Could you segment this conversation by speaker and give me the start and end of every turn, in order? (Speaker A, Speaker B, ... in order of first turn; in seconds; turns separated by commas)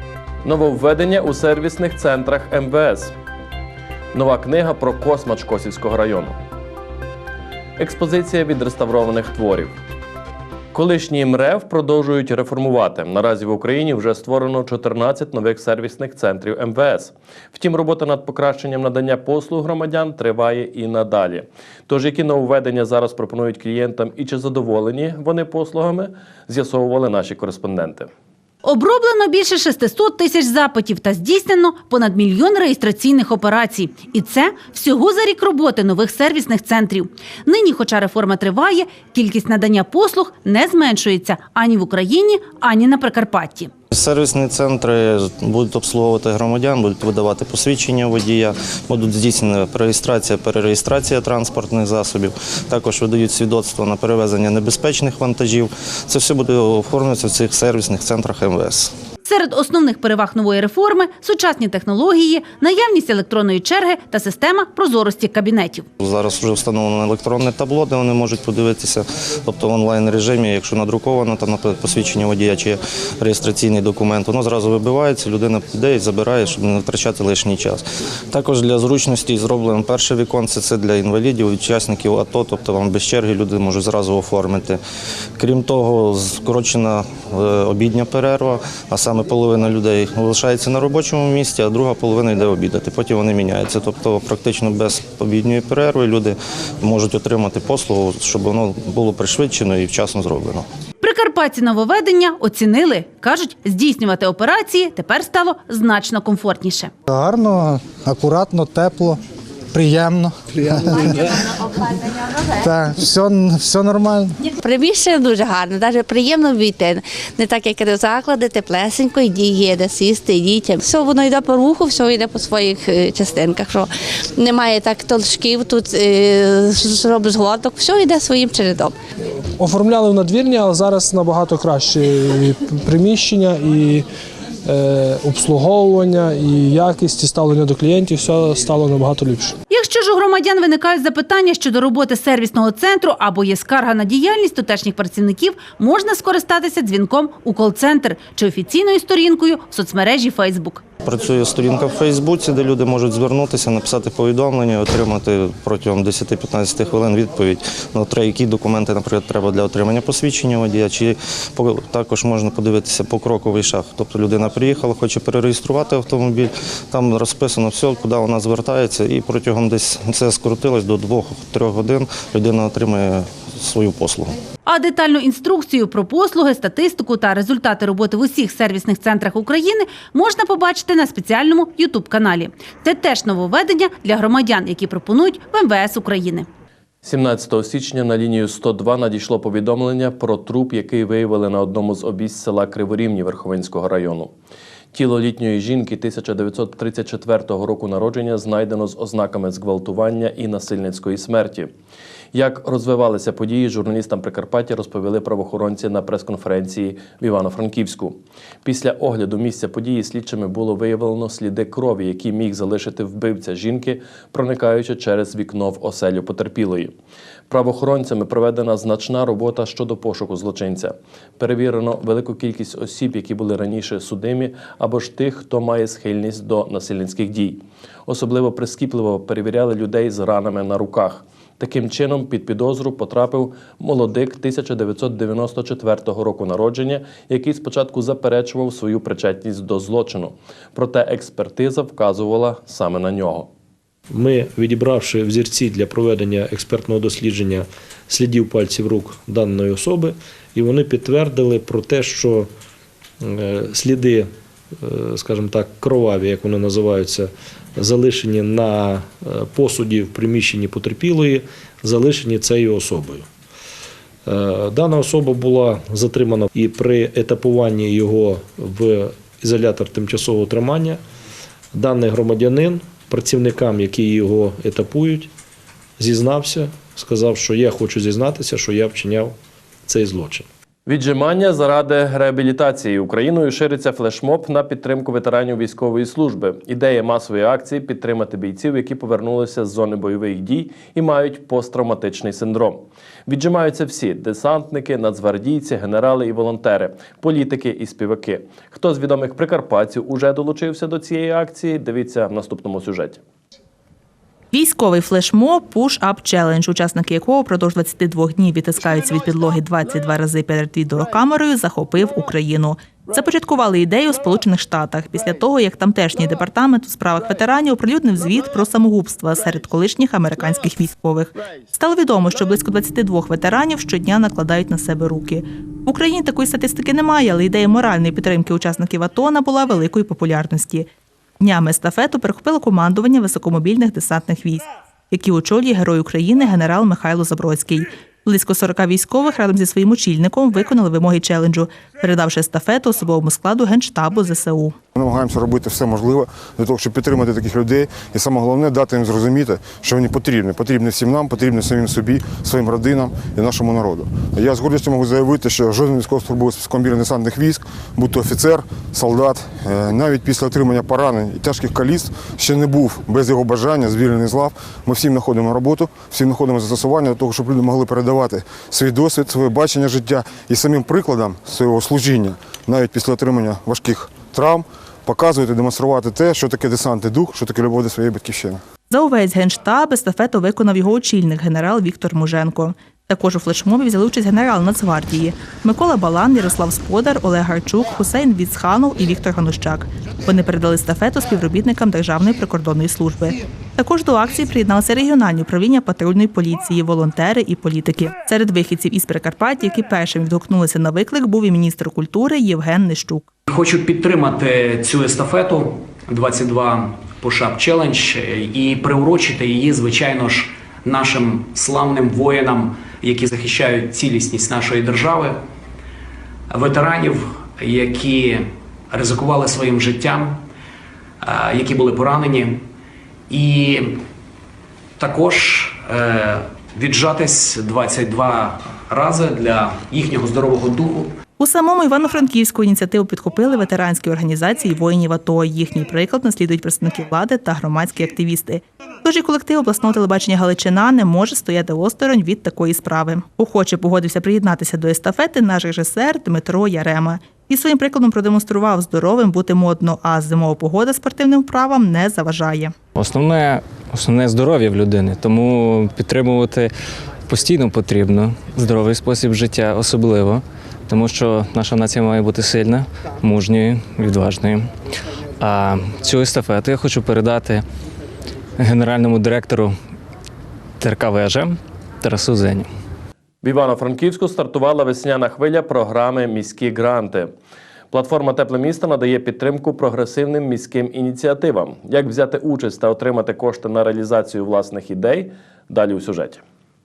Speaker A: 0.4-3.1, Speaker A: 4.1-6.4, Speaker A: 7.8-9.7, Speaker A: 10.7-28.1, Speaker B: 28.6-43.7, Speaker C: 43.9-58.9, Speaker B: 59.2-65.8, Speaker C: 66.0-84.8, Speaker C: 85.4-100.7, Speaker B: 101.0-106.9, Speaker D: 107.1-109.2, Speaker D: 109.7-111.0, Speaker D: 112.7-114.3, Speaker E: 114.6-128.9, Speaker F: 129.7-131.9, Speaker F: 133.0-133.5, Speaker F: 135.4-136.2, Speaker F: 137.0-139.2, Speaker B: 139.7-150.8, Speaker C: 151.0-174.3, Speaker B: 174.7-186.4, Speaker A: 187.0-194.3, Speaker A: 194.9-201.7, Speaker A: 202.3-216.9, Speaker A: 217.5-243.5, Speaker G: 244.1-252.5, Speaker G: 253.2-263.3, Speaker G: 264.2-271.0, Speaker G: 271.7-275.3, Speaker G: 276.0-279.4, Speaker G: 279.9-280.5, Speaker A: 280.9-303.2, Speaker H: 304.5-330.9, Speaker H: 331.4-344.8, Speaker I: 344.9-378.6, Speaker H: 378.9-403.2, Speaker J: 403.5-415.4, Speaker J: 416.5-420.4, Speaker J: 421.2-422.6, Speaker J: 423.3-424.0, Speaker J: 425.0-431.1, Speaker H: 431.4-452.7, Speaker K: 452.9-456.7, Speaker K: 457.3-464.7, Speaker K: 465.4-467.6, Speaker K: 468.6-469.8, Speaker K: 470.8-472.7, Speaker A: 473.4-477.3, Speaker A: 477.9-486.4